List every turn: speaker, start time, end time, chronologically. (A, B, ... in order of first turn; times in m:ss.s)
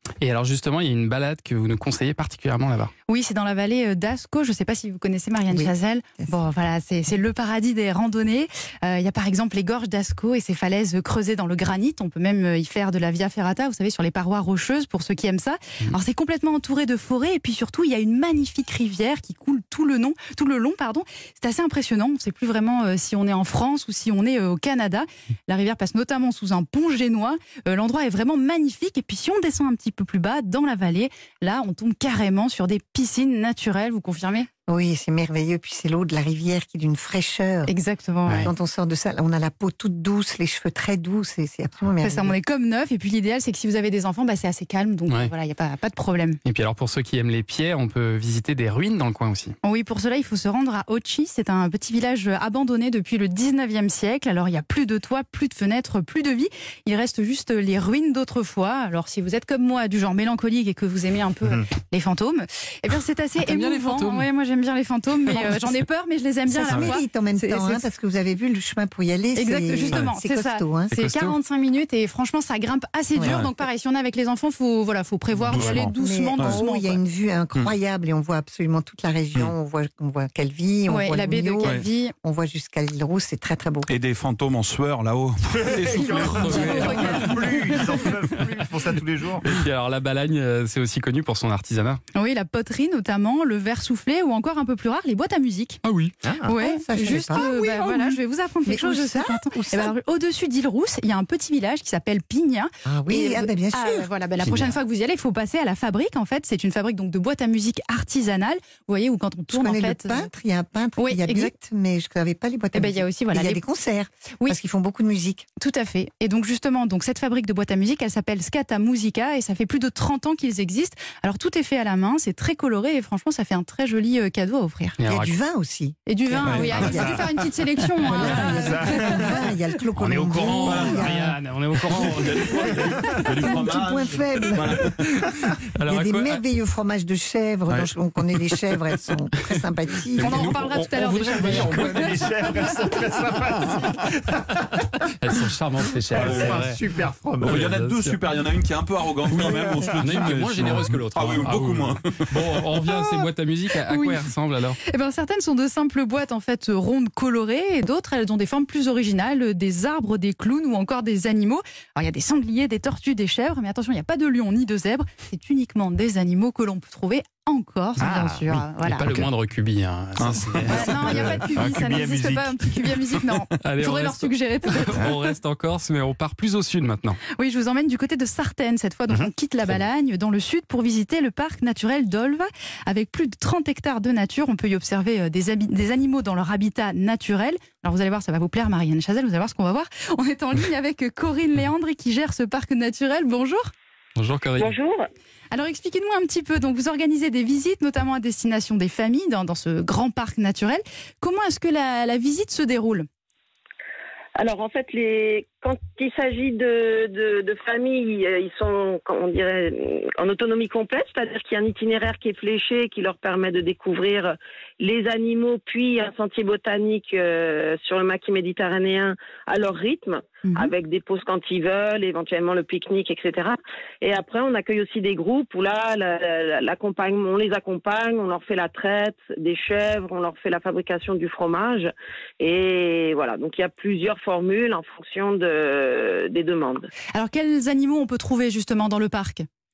0:00.2-0:02.9 A
0:03.1-0:34.5 B
0:05.5-0:06.3 C
0:34.7-0:37.7 C
0:37.6-0:38.5 B
0:38.3-0:42.3 C
0:42.0-0:46.4 B
0:46.4-0:49.5 A
0:49.6-1:07.8 B
1:03.4-1:04.3 A
1:06.5-1:10.9 C
1:09.3-1:17.0 B
1:10.9-1:11.4 A
1:13.2-1:13.5 C
1:15.5-1:23.9 C
1:20.9-1:22.1 B
1:23.9-1:26.6 D
1:25.4-1:29.6 E
1:25.9-1:28.1 B
1:26.1-1:27.2 A
1:28.4-1:28.7 A
1:29.4-1:32.0 A
1:32.1-1:35.8 B
1:35.8-1:36.2 A
1:36.2-1:36.5 E
1:36.4-1:50.3 B
1:36.5-1:39.9 C
1:42.9-1:44.1 C
1:49.5-1:55.5 C
1:51.0-1:51.5 B
1:52.7-1:53.6 B
1:55.6-2:05.0 B
2:05.0-2:05.4 A
2:05.1-2:07.2 C
2:06.1-2:09.3 B
2:06.6-2:07.0 D
2:08.0-2:11.4 C
2:08.2-2:08.7 A
2:10.0-2:13.6 A
2:11.8-2:13.6 E
2:13.3-2:14.8 D
2:13.3-2:14.8 C
2:15.8-2:16.4 A
2:15.9-2:20.7 C
2:17.7-2:19.2 A
2:20.2-2:22.3 A
2:20.2-2:22.7 B
2:21.1-2:24.4 E
2:25.2-2:26.8 A
2:25.3-2:27.9 E
2:27.4-2:28.2 A
2:27.5-2:32.0 D
2:29.1-2:31.7 E
2:29.3-2:34.8 A
2:32.9-2:33.2 B
2:33.8-2:49.1 B
2:48.0-2:48.5 E
2:48.9-2:51.6 A
2:50.4-2:53.1 E
2:50.7-2:55.2 B
2:53.6-2:57.2 A
2:57.3-3:13.7 B
3:14.2-3:14.7 A
3:14.6-3:15.0 F
3:15.5-3:23.1 B
3:24.4-3:56.9 F
3:40.4-3:40.7 B
3:57.1-3:59.5 B